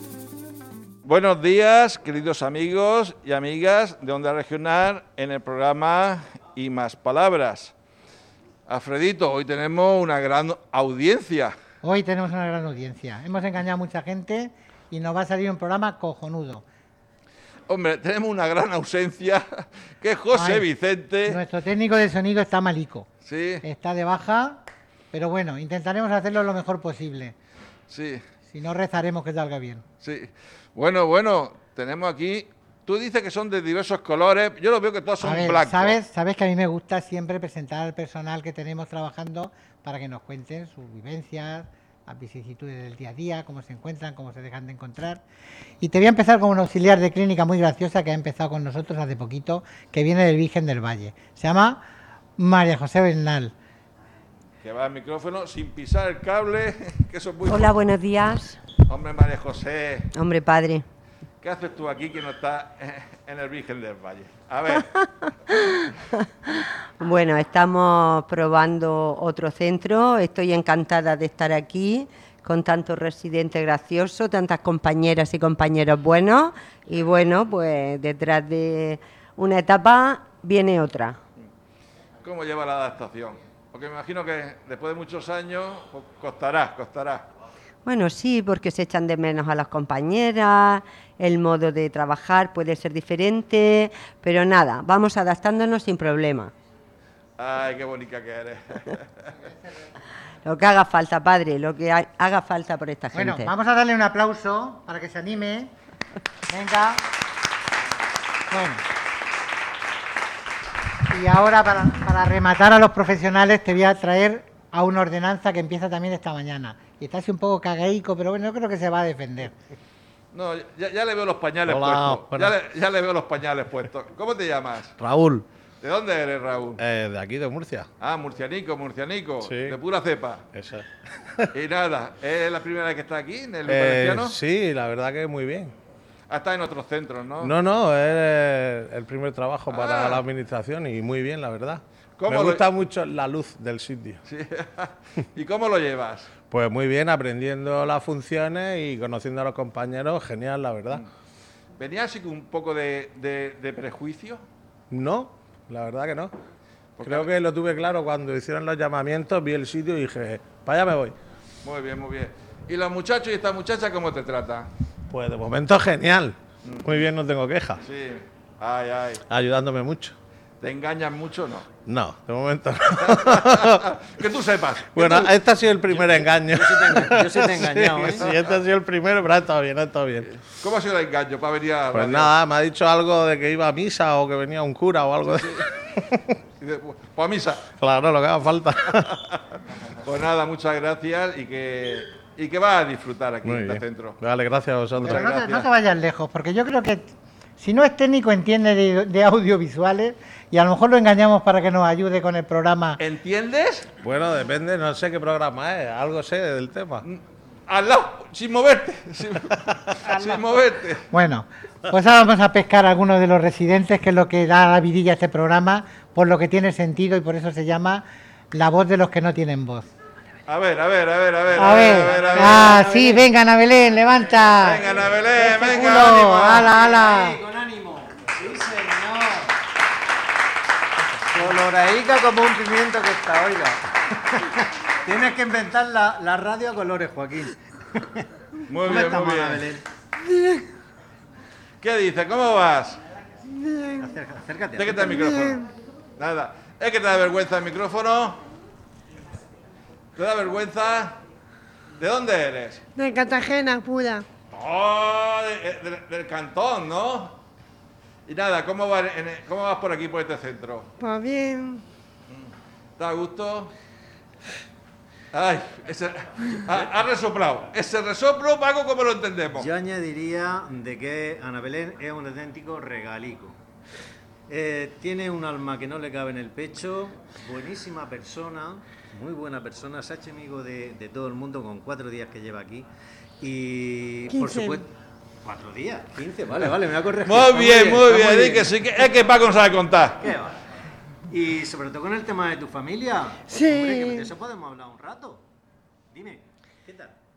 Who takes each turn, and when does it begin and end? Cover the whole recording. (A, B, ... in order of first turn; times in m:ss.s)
0:01.0-0:07.7 A
0:08.7-0:11.5 A
0:11.8-0:16.6 B
0:17.7-0:21.4 A
0:20.3-0:20.7 B
0:21.2-0:23.1 B
0:23.3-0:23.6 A
0:23.6-0:27.4 B
0:27.9-0:28.2 A
0:28.5-0:29.8 B
0:30.0-0:36.0 A
0:35.2-0:45.2 B
0:45.8-0:51.8 B
0:52.4-0:53.5 B
0:54.6-0:57.9 A
0:57.5-0:58.6 C
0:58.9-1:00.1 A
1:00.2-1:00.8 C
1:01.4-1:04.9 A
1:07.0-1:21.2 C
1:22.2-1:27.3 A
1:27.9-1:36.5 C
1:37.4-1:39.1 A
1:39.4-1:39.6 B
1:40.5-1:43.1 C
1:43.1-1:45.7 B
1:46.5-1:47.0 B
1:48.5-1:48.8 B
1:51.1-1:59.6 B
2:00.3-2:05.0 A
2:01.7-2:02.5 D
2:05.0-2:05.4 D
2:05.8-2:06.8 A
2:06.8-2:07.9 D
2:08.0-2:10.4 A
2:09.4-2:09.7 D
2:10.6-2:10.8 D
2:11.5-2:14.4 A
2:13.7-2:15.7 D
2:16.3-2:17.5 A
2:17.4-2:24.2 D
2:19.7-2:20.2 A
2:22.2-2:22.7 A
2:24.3-2:26.3 A
2:26.5-2:31.0 D
2:31.8-2:34.4 A
2:34.9-2:36.3 D
2:37.0-2:37.3 A
2:37.0-2:41.2 D
2:41.6-2:44.7 A
2:45.1-2:47.8 D
2:46.6-2:47.1 A
2:47.8-2:49.2 A
2:49.3-2:50.1 D
2:50.6-2:51.7 A
2:51.9-2:53.7 D
2:53.0-2:55.2 A
2:54.9-3:00.3 D
2:55.1-2:55.3 E
2:55.9-2:58.4 E
3:00.4-3:02.3 A
3:01.9-3:05.5 D
3:05.4-3:05.6 A
3:06.6-3:07.6 A
3:07.8-3:09.1 D
3:10.0-3:14.2 A
3:13.4-3:15.1 D
3:15.0-3:15.7 A
3:15.0-3:23.0 B
3:23.0-3:23.9 A
3:24.0-3:27.0 D
3:27.0-3:31.1 A
3:31.1-3:39.9 B
3:40.5-3:42.8 A
3:41.6-3:47.4 B
3:41.6-3:43.2 E
3:44.6-3:46.3 A
3:45.5-3:49.6 E
3:51.3-3:58.3 E
3:58.7-3:59.7 A
3:58.8-3:59.8 E
4:00.3-4:00.6 F
4:01.8-4:03.0 A
4:04.0-4:05.0 E
4:04.8-4:05.6 A
4:05.0-4:05.6 F
4:06.2-4:08.4 A
4:10.2-4:11.2 A
4:12.0-4:12.8 A
4:13.0-4:14.3 F
4:14.5-4:17.4 A
4:18.3-4:20.9 A
4:21.0-4:21.8 F
4:22.3-4:23.7 A
4:25.3-4:29.7 A
4:29.5-4:33.6 E
4:34.5-4:42.9 E
4:43.4-4:44.9 E
4:44.3-4:44.8 F
4:45.4-4:48.7 E
4:47.2-4:50.2 A
4:50.2-4:50.6 E
4:51.3-4:55.4 E
4:53.5-4:54.3 F
4:56.1-4:57.2 E